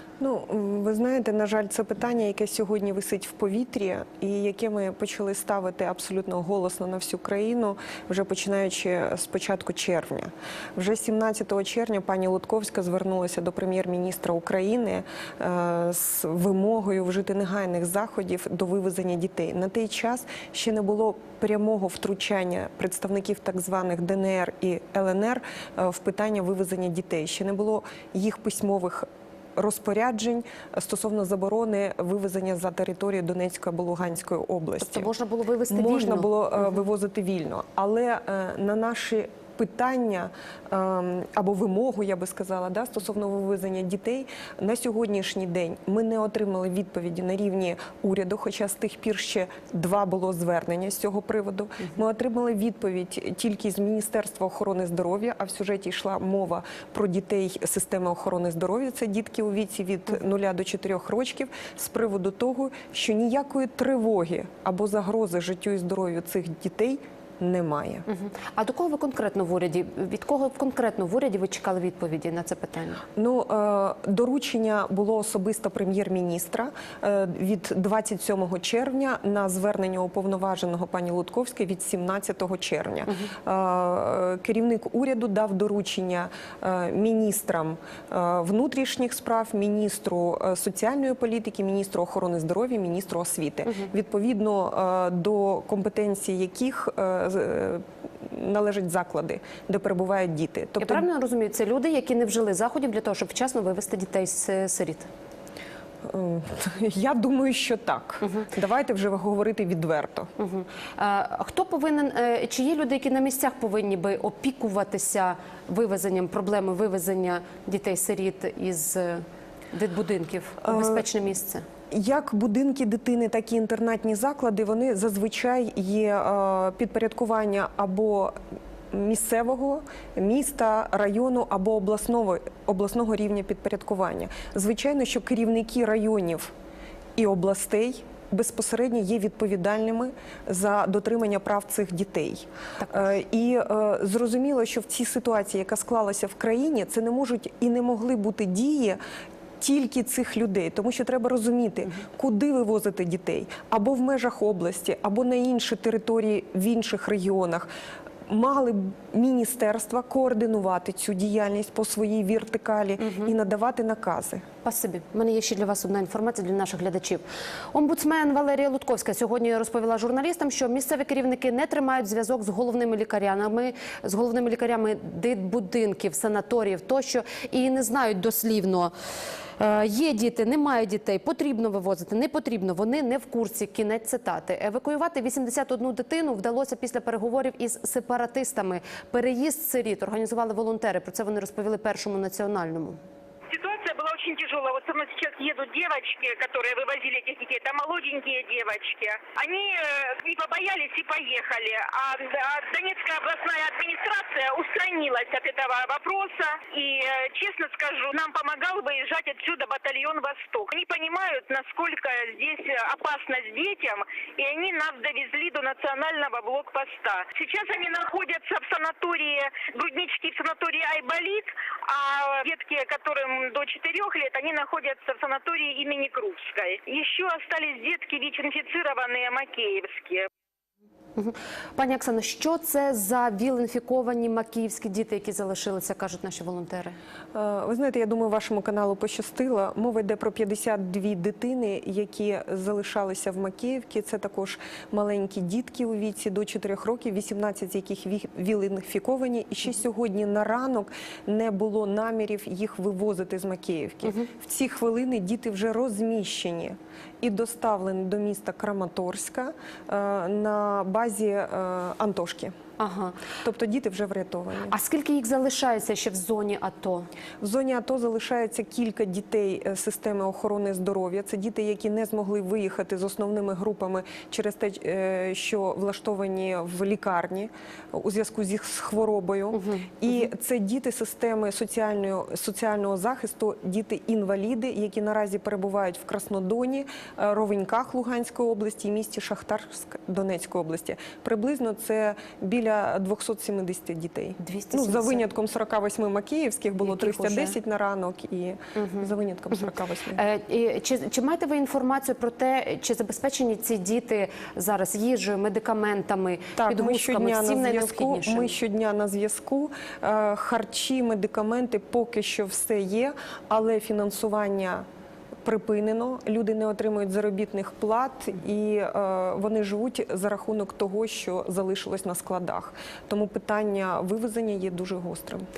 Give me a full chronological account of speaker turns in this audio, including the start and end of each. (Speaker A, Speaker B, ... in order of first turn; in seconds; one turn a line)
Speaker A: 0.2-35.1
Speaker B: 34.8-36.3
Speaker A: 35.7-68.0
Speaker B: 68.1-73.0
Speaker A: 73.2-101.0
Speaker B: 100.8-105.1
Speaker A: 106.1-110.3
Speaker B: 110.4-121.6
Speaker A: 120.6-121.0
Speaker A: 121.9-128.3
Speaker A: 128.9-136.5
Speaker A: 137.2-149.0
Speaker A: 149.6-157.7
Speaker A: 158.3-164.4
Speaker B: 163.0-163.3
Speaker B: 164.6-178.9
Speaker B: 179.6-193.0
Speaker C: 193.5-230.3
Speaker B: 231.2-236.9
Speaker A: 237.3-262.5
Speaker B: 262.8-263.2
Speaker A: 263.4-264.7
Speaker B: 264.7-267.1
Speaker A: 267.4-300.2
Speaker B: 279.5-279.9
Speaker B: 294.4-295.2
Speaker B: 296.8-297.6
Speaker B: 298.8-299.0
Speaker B: 300.1-308.5
Speaker A: 306.6-314.8
Speaker A: 315.4-325.4